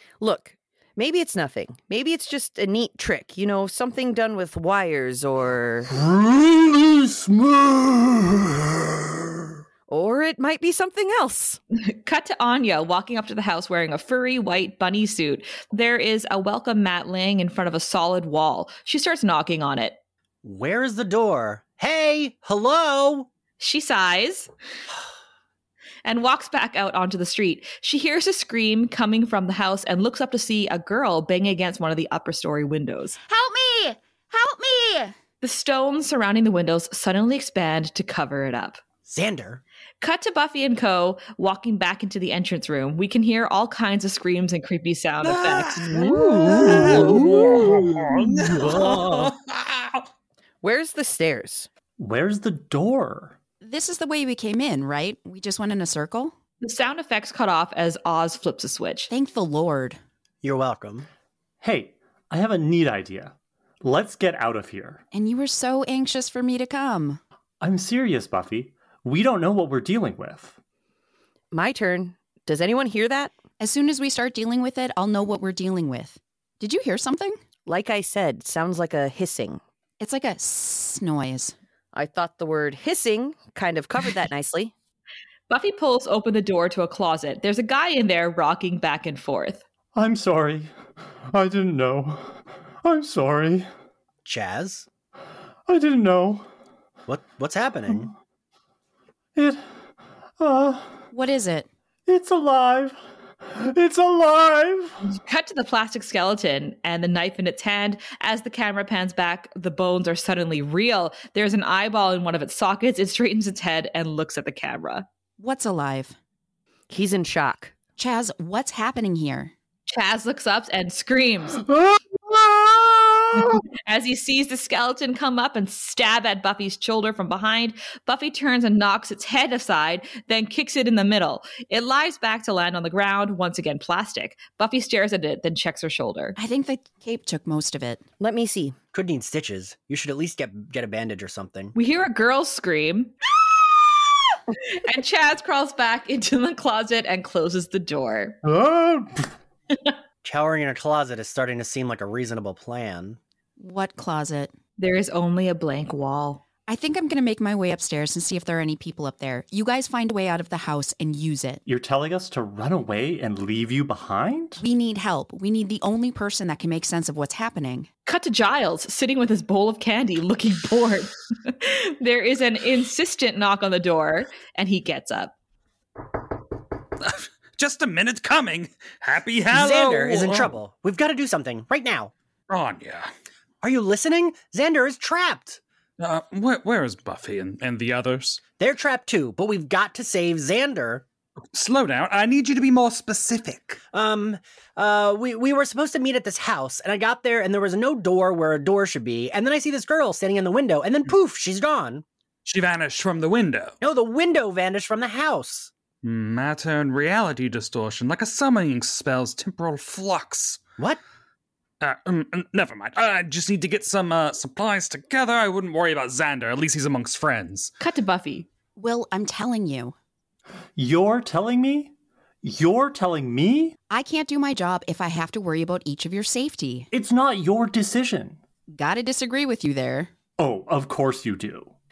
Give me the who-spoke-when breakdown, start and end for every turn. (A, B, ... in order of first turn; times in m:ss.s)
0:00.2-0:05.9 A
0:05.9-0:09.5 B
0:09.9-0:11.6 A
0:11.9-0:20.0 C
0:20.4-0:23.3 D
0:23.6-0:24.5 C
0:26.0-0:33.2 C
0:33.3-0:35.1 E
0:35.4-0:38.8 C
0:39.1-0:39.6 D
0:40.0-0:45.9 C
0:45.3-0:50.1 F
0:46.2-0:47.9 B
0:46.5-0:47.3 D
0:48.5-0:49.0 B
0:50.6-0:51.7 A
0:52.0-0:53.4 B
0:53.6-0:56.3 E
0:56.6-0:59.1 C
0:59.1-1:00.0 E
1:00.4-1:01.1 D
1:01.6-1:05.0 B
1:05.1-1:07.2 E
1:07.6-1:10.6 B
1:11.5-1:13.3 A
1:13.6-1:17.4 E
1:17.6-1:19.6 A
1:20.0-1:21.5 E
1:21.9-1:24.7 A
1:25.5-1:29.6 C
1:29.9-1:30.7 B
1:31.3-1:33.7 B
1:34.2-1:34.8 D
1:35.7-1:36.5 B
1:37.1-1:38.1 D
1:39.4-1:39.6 B
1:40.4-1:41.0 B
1:41.1-1:41.7 E
1:42.1-1:45.0 B
1:45.1-1:55.0 C
1:55.4-1:56.2 E
1:56.9-1:57.7 A
1:58.0-1:59.5 E
1:59.9-2:01.6 C
2:01.7-2:03.6 B
2:03.8-2:16.4 C
2:16.4-2:18.0 E
2:18.2-2:18.8 A
2:18.9-2:21.7 D
2:21.7-2:23.1 C
2:24.6-2:28.4 C
2:28.4-2:29.3 B
2:30.2-2:33.2 D
2:33.6-2:34.5 E
2:34.8-2:36.4 C
2:36.7-2:41.6 E
2:41.6-2:44.6 B
2:44.6-2:47.9 E
2:48.0-2:55.3 C
2:57.0-3:00.6 F
2:59.5-3:02.1 D
3:02.5-3:03.1 F
3:03.6-3:05.6 D
3:06.0-3:08.4 F
3:08.6-3:11.0 D
3:11.5-3:13.8 F
3:13.9-3:22.0 D
3:22.4-3:23.7 F
3:23.8-3:25.7 D
3:26.0-3:30.6 F
3:31.8-3:37.7 F
3:37.8-3:38.5 C
3:38.8-3:39.9 E
3:40.8-3:43.8 B
3:43.9-3:46.9 E
3:46.9-3:48.4 B
3:48.7-3:50.1 E
3:50.4-3:51.7 B